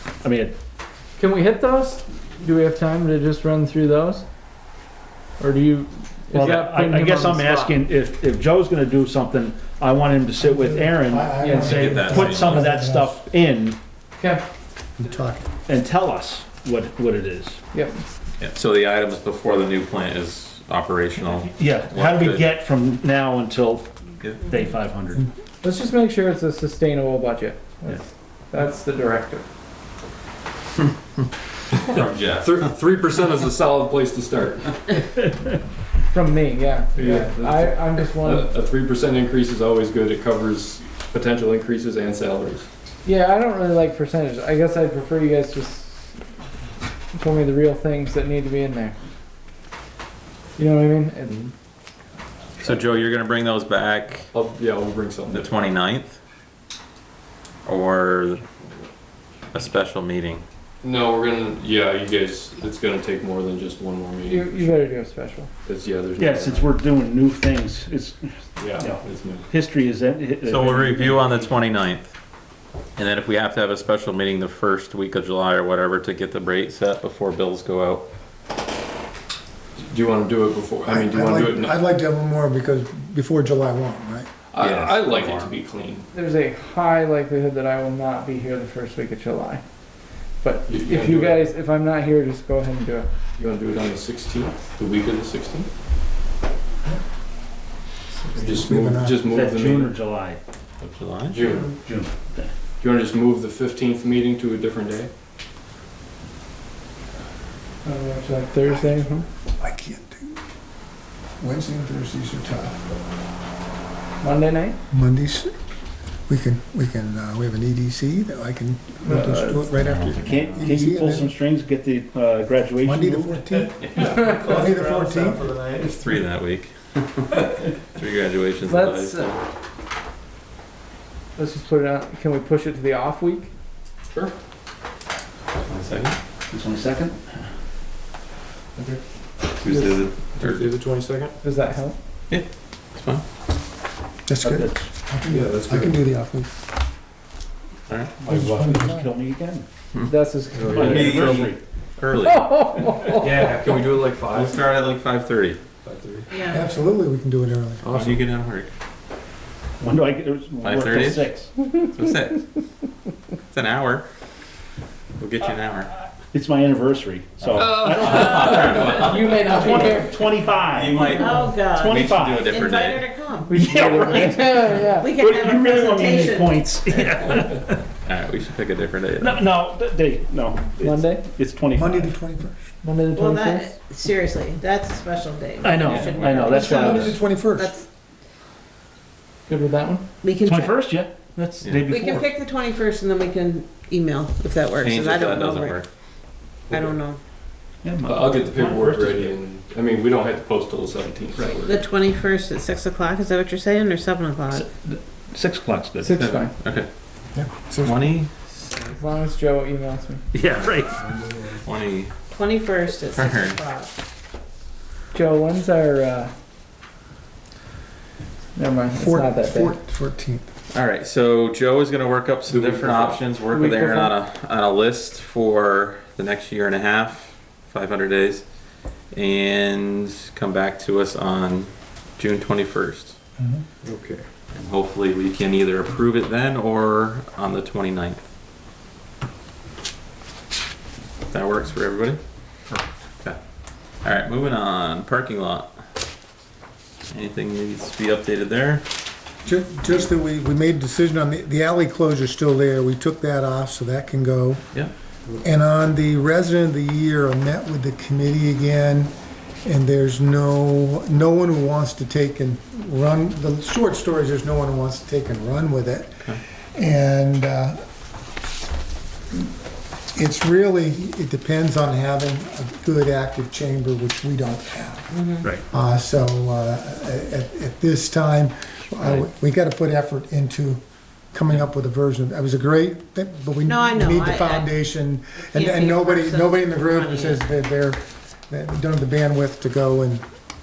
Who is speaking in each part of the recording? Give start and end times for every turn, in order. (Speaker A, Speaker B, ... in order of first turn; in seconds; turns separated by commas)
Speaker A: 0.2-0.6, Speaker B: 1.2-4.2, Speaker B: 5.4-7.8, Speaker A: 6.3-13.8, Speaker C: 10.4-13.2, Speaker B: 11.4-11.8, Speaker D: 11.7-12.7, Speaker B: 14.2-14.4, Speaker C: 15.0-15.5, Speaker A: 15.7-17.6, Speaker B: 17.7-18.0, Speaker D: 18.4-22.5, Speaker A: 21.3-25.2, Speaker B: 25.6-29.4, Speaker D: 31.8-32.7, Speaker E: 32.4-35.0, Speaker B: 36.1-38.5, Speaker E: 36.9-42.6, Speaker B: 43.0-46.2, Speaker B: 47.1-48.9, Speaker B: 50.6-51.5, Speaker D: 52.6-54.3, Speaker E: 54.3-55.5, Speaker D: 55.3-56.2, Speaker D: 57.6-58.4, Speaker D: 59.5-60.4, Speaker E: 60.8-64.9, Speaker B: 64.2-65.5, Speaker E: 65.6-66.8, Speaker A: 66.2-71.4, Speaker E: 68.5-69.4, Speaker D: 70.4-72.1, Speaker D: 73.0-78.0, Speaker E: 79.8-81.8, Speaker C: 80.8-84.3, Speaker E: 84.5-86.0, Speaker D: 84.6-85.5, Speaker B: 86.1-89.6, Speaker B: 90.4-93.1, Speaker E: 90.7-91.5, Speaker E: 93.4-95.7, Speaker C: 98.3-99.2, Speaker E: 98.4-100.0, Speaker A: 99.3-100.4, Speaker D: 100.8-101.4, Speaker E: 101.3-101.7, Speaker A: 101.8-102.5, Speaker E: 102.8-105.1, Speaker B: 107.8-109.2, Speaker C: 108.7-108.9, Speaker C: 109.5-110.4, Speaker C: 111.4-112.8, Speaker B: 114.2-114.8, Speaker C: 114.9-115.5, Speaker C: 116.3-121.3, Speaker A: 119.1-123.4, Speaker C: 122.8-125.5, Speaker D: 123.8-124.3, Speaker D: 125.8-129.4, Speaker B: 128.6-129.4, Speaker B: 131.3-133.5, Speaker D: 135.5-136.2, Speaker A: 136.5-137.2, Speaker D: 139.6-140.7, Speaker E: 139.6-141.4, Speaker B: 141.4-142.0, Speaker D: 142.3-143.2, Speaker C: 144.2-146.5, Speaker A: 144.4-144.9, Speaker E: 145.2-146.0, Speaker A: 148.2-149.7, Speaker C: 148.3-149.1, Speaker D: 149.9-152.5, Speaker B: 150.1-150.8, Speaker E: 150.5-151.5, Speaker A: 150.6-151.6, Speaker B: 152.2-153.4, Speaker E: 153.2-154.7, Speaker D: 154.2-155.6, Speaker E: 155.8-156.3, Speaker F: 156.3-156.6, Speaker C: 156.4-157.8, Speaker E: 157.8-158.2, Speaker D: 157.9-158.7, Speaker A: 159.8-161.5, Speaker D: 160.6-161.3, Speaker D: 161.8-162.4, Speaker D: 163.5-164.1, Speaker D: 165.2-165.9, Speaker A: 166.3-172.5, Speaker E: 167.6-168.5, Speaker D: 167.9-169.4, Speaker B: 168.5-170.4, Speaker D: 170.7-173.1, Speaker F: 171.2-176.7, Speaker B: 173.4-175.1, Speaker A: 173.5-177.8, Speaker D: 178.0-179.4, Speaker A: 179.2-182.1, Speaker B: 180.8-181.2, Speaker C: 181.7-182.7, Speaker B: 182.8-183.8, Speaker F: 183.1-187.8, Speaker A: 185.6-187.2, Speaker D: 185.9-186.3, Speaker C: 186.5-187.7, Speaker B: 189.5-190.0, Speaker F: 190.2-190.8, Speaker A: 190.4-192.3, Speaker F: 191.9-195.8, Speaker D: 194.8-195.9, Speaker E: 196.7-196.9, Speaker F: 196.7-197.2, Speaker A: 197.8-199.3, Speaker E: 198.0-201.8, Speaker F: 201.6-204.6, Speaker A: 204.5-206.2, Speaker B: 206.0-206.5, Speaker D: 206.2-206.9, Speaker C: 207.3-208.1, Speaker D: 207.8-208.9, Speaker B: 209.0-210.2, Speaker A: 210.3-211.0, Speaker D: 211.6-212.1, Speaker F: 212.3-213.9, Speaker D: 213.0-213.6, Speaker B: 215.1-216.3, Speaker B: 218.6-219.8, Speaker C: 218.9-220.5, Speaker D: 220.7-228.4, Speaker E: 222.5-223.3, Speaker B: 223.4-224.1, Speaker D: 229.1-233.2, Speaker C: 233.4-233.6, Speaker E: 233.8-234.2, Speaker D: 234.5-238.2, Speaker D: 241.3-242.2, Speaker D: 244.0-245.7, Speaker D: 247.1-248.8, Speaker C: 249.4-254.6, Speaker C: 255.4-267.8, Speaker C: 270.1-290.2, Speaker F: 275.1-275.4, Speaker F: 283.6-284.8, Speaker F: 285.5-287.4